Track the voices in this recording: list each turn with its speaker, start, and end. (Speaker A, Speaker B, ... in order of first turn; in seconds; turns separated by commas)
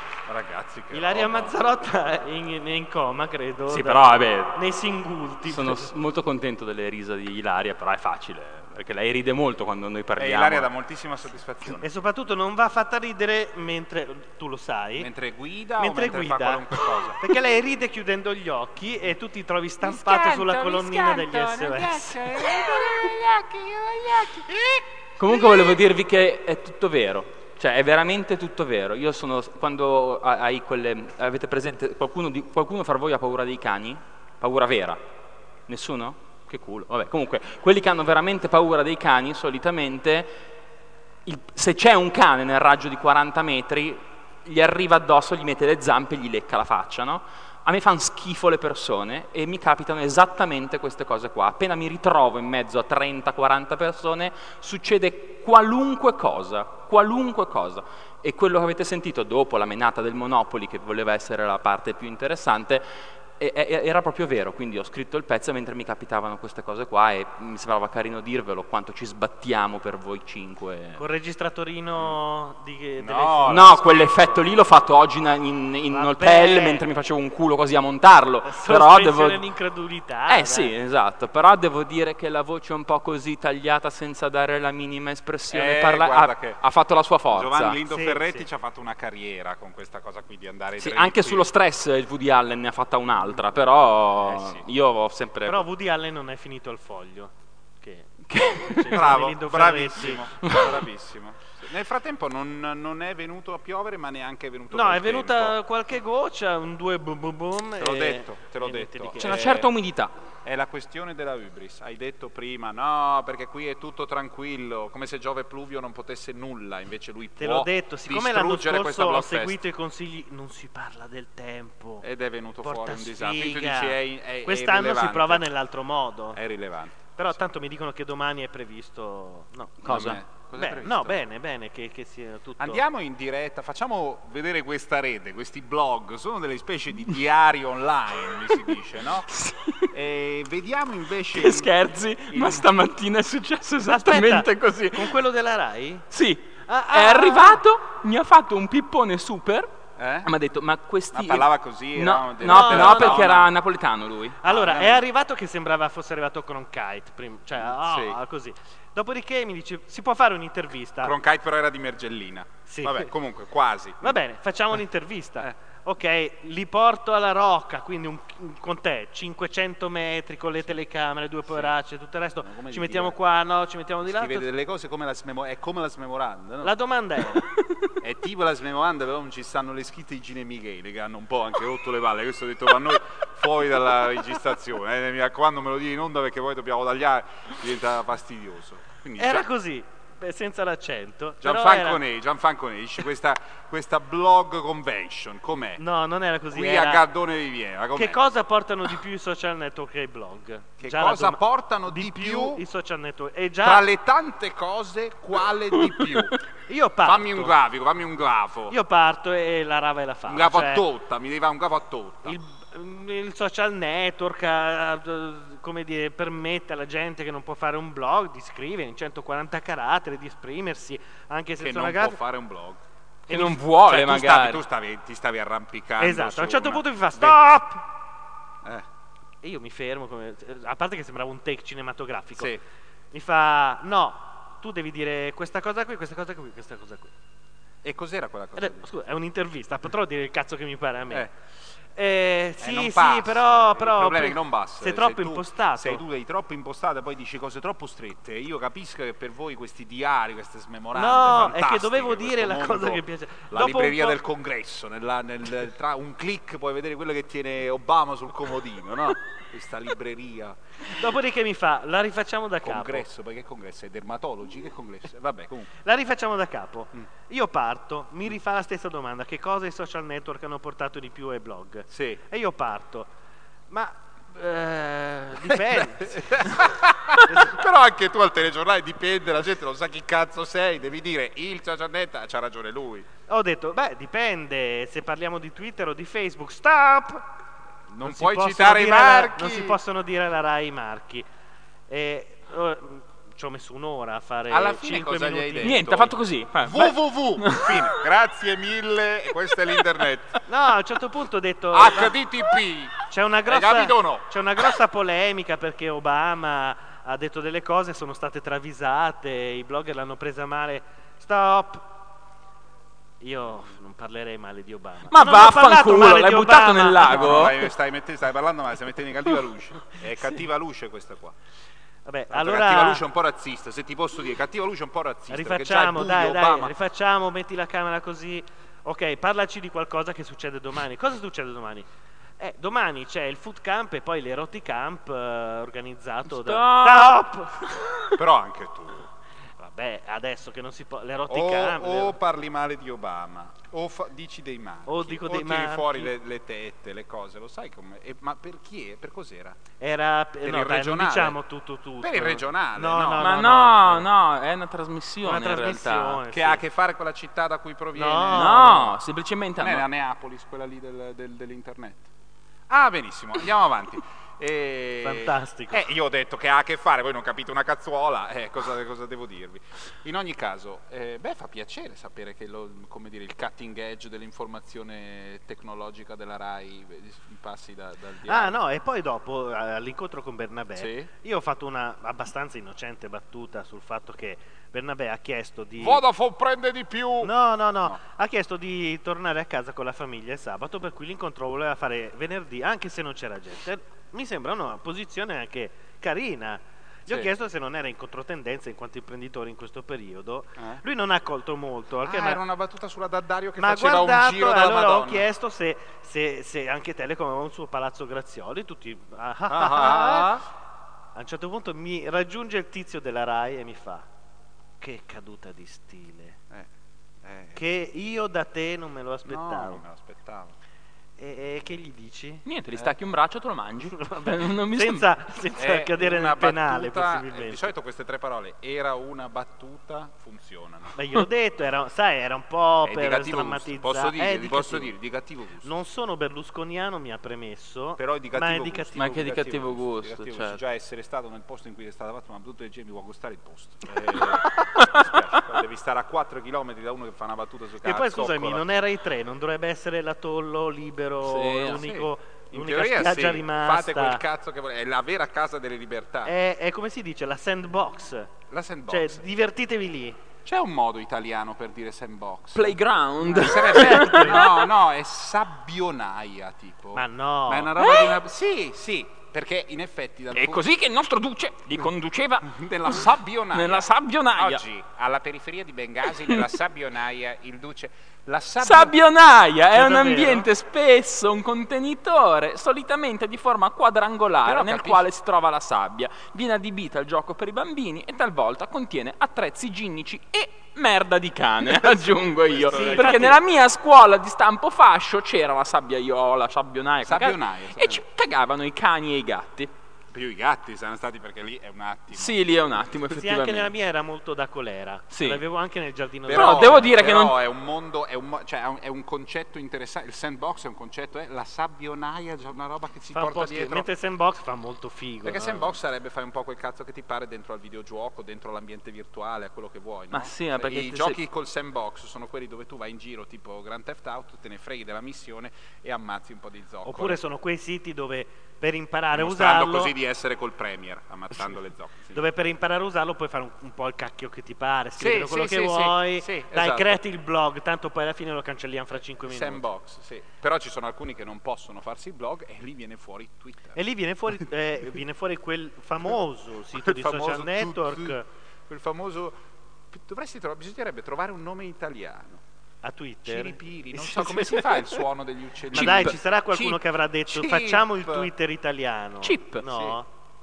Speaker A: 0.3-1.5, Speaker B: 0.9-5.9, Speaker C: 3.7-4.6, Speaker C: 5.5-10.7, Speaker A: 10.2-11.9, Speaker B: 11.8-15.1, Speaker A: 15.0-17.2, Speaker B: 15.8-16.6, Speaker B: 17.2-22.1, Speaker A: 19.8-25.7, Speaker C: 25.2-35.0, Speaker C: 35.7-40.3, Speaker C: 41.3-62.9, Speaker C: 63.4-71.0, Speaker B: 71.0-74.4, Speaker A: 73.0-73.8, Speaker C: 73.5-79.4, Speaker B: 75.9-76.8, Speaker B: 78.5-80.7, Speaker C: 80.3-87.8, Speaker A: 85.5-86.6, Speaker A: 87.3-91.5, Speaker B: 87.9-88.5, Speaker C: 90.8-95.7, Speaker A: 94.2-94.7, Speaker B: 95.5-100.3, Speaker C: 98.3-99.0, Speaker A: 98.9-105.5, Speaker B: 104.7-109.5, Speaker A: 107.8-109.7, Speaker C: 109.2-110.1, Speaker A: 110.4-119.6, Speaker B: 117.4-122.0, Speaker A: 122.0-125.5, Speaker B: 122.6-126.4, Speaker A: 126.3-127.1, Speaker B: 127.2-132.8, Speaker C: 129.8-130.2, Speaker A: 129.9-131.2, Speaker A: 132.6-139.4, Speaker C: 139.3-139.9, Speaker A: 139.9-141.7, Speaker C: 141.3-145.2, Speaker A: 142.3-142.7, Speaker B: 143.8-146.1, Speaker C: 146.1-149.7, Speaker B: 146.7-147.6, Speaker A: 150.0-150.3, Speaker C: 150.2-154.4, Speaker A: 151.1-153.5, Speaker B: 152.4-153.3, Speaker B: 154.4-161.1, Speaker A: 154.5-155.0, Speaker A: 157.6-158.2, Speaker A: 161.0-164.2, Speaker B: 162.7-163.1, Speaker B: 164.0-174.5, Speaker A: 171.5-171.7, Speaker A: 172.4-173.2, Speaker A: 174.0-176.7, Speaker B: 176.6-177.4, Speaker A: 178.0-189.5, Speaker B: 189.2-192.0, Speaker A: 191.4-195.8, Speaker B: 195.8-197.1, Speaker A: 196.5-198.2, Speaker B: 198.0-203.8, Speaker A: 200.8-202.6, Speaker A: 203.6-206.4, Speaker B: 206.7-207.5, Speaker A: 207.0-208.8, Speaker B: 208.7-210.8, Speaker A: 210.3-212.4, Speaker B: 212.2-222.2, Speaker A: 221.6-222.8, Speaker C: 223.3-224.6, Speaker A: 223.8-227.4, Speaker B: 226.0-227.8, Speaker B: 229.4-232.5, Speaker B: 233.1-237.1, Speaker A: 237.8-238.9, Speaker B: 238.6-241.3, Speaker B: 242.0-246.0, Speaker A: 242.6-260.6, Speaker B: 250.9-254.2, Speaker B: 260.9-263.1, Speaker A: 262.6-265.7, Speaker B: 265.8-273.1, Speaker A: 271.9-272.2, Speaker B: 273.7-276.5, Speaker A: 275.5-283.1, Speaker B: 277.3-277.6, Speaker B: 283.3-287.3, Speaker A: 287.9-289.8, Speaker B: 288.0-291.3, Speaker B: 291.9-295.8, Speaker A: 294.5-300.4, Speaker C: 295.6-297.9, Speaker B: 300.5-302.1, Speaker A: 301.7-304.3, Speaker B: 303.1-311.9, Speaker B: 313.2-317.5, Speaker C: 315.1-317.7, Speaker A: 317.1-321.4, Speaker B: 322.1-323.0, Speaker A: 322.3-326.7, Speaker B: 325.3-331.9, Speaker B: 332.4-337.7, Speaker C: 336.3-337.8, Speaker A: 338.1-339.1, Speaker B: 339.6-342.2, Speaker A: 341.3-349.6, Speaker B: 344.9-346.1, Speaker B: 349.8-354.1, Speaker A: 350.4-351.4, Speaker A: 352.0-353.3, Speaker C: 353.2-356.2, Speaker B: 355.2-356.6, Speaker A: 356.3-358.8, Speaker B: 357.9-358.9, Speaker C: 358.3-359.9, Speaker A: 359.6-362.1, Speaker A: 362.7-378.6, Speaker B: 365.0-365.8, Speaker B: 378.3-386.0, Speaker A: 380.8-381.1, Speaker A: 385.8-388.0, Speaker B: 387.2-402.4, Speaker A: 402.0-405.3, Speaker B: 403.6-410.4, Speaker A: 409.5-410.5, Speaker B: 411.1-414.1, Speaker B: 414.8-416.4, Speaker A: 417.2-417.6, Speaker B: 417.6-419.8, Speaker A: 419.2-420.6, Speaker B: 421.2-422.4, Speaker C: 422.5-425.1, Speaker B: 423.9-427.7, Speaker A: 425.6-430.9, Speaker B: 431.0-434.9, Speaker A: 432.9-435.7, Speaker B: 435.6-439.3, Speaker A: 438.0-448.7, Speaker C: 439.0-440.6, Speaker B: 447.8-454.2, Speaker C: 451.2-451.8, Speaker A: 451.6-456.3, Speaker B: 456.2-458.3, Speaker A: 458.5-459.2, Speaker B: 458.9-460.2, Speaker A: 460.4-470.6, Speaker C: 462.5-464.7, Speaker B: 463.7-464.4, Speaker B: 466.9-467.9, Speaker C: 470.3-474.6, Speaker A: 472.5-478.9, Speaker C: 478.6-499.7, Speaker B: 479.7-480.5, Speaker A: 484.4-485.1, Speaker A: 491.8-493.4, Speaker B: 492.7-493.4, Speaker A: 497.1-498.0, Speaker A: 500.1-502.4, Speaker C: 502.1-503.7, Speaker B: 503.1-506.9, Speaker C: 505.1-505.4, Speaker A: 506.3-513.9, Speaker C: 506.3-507.4, Speaker B: 513.1-515.8, Speaker A: 515.2-527.2, Speaker C: 520.1-521.2, Speaker B: 526.9-529.9, Speaker A: 529.1-532.2, Speaker B: 532.1-539.6, Speaker A: 535.0-537.0, Speaker A: 539.2-543.8, Speaker B: 543.8-548.2, Speaker A: 546.7-549.4, Speaker A: 549.9-552.4, Speaker B: 552.8-555.0, Speaker A: 553.2-558.3, Speaker C: 555.7-556.2, Speaker B: 555.7-560.1, Speaker C: 559.2-559.6, Speaker A: 559.6-560.0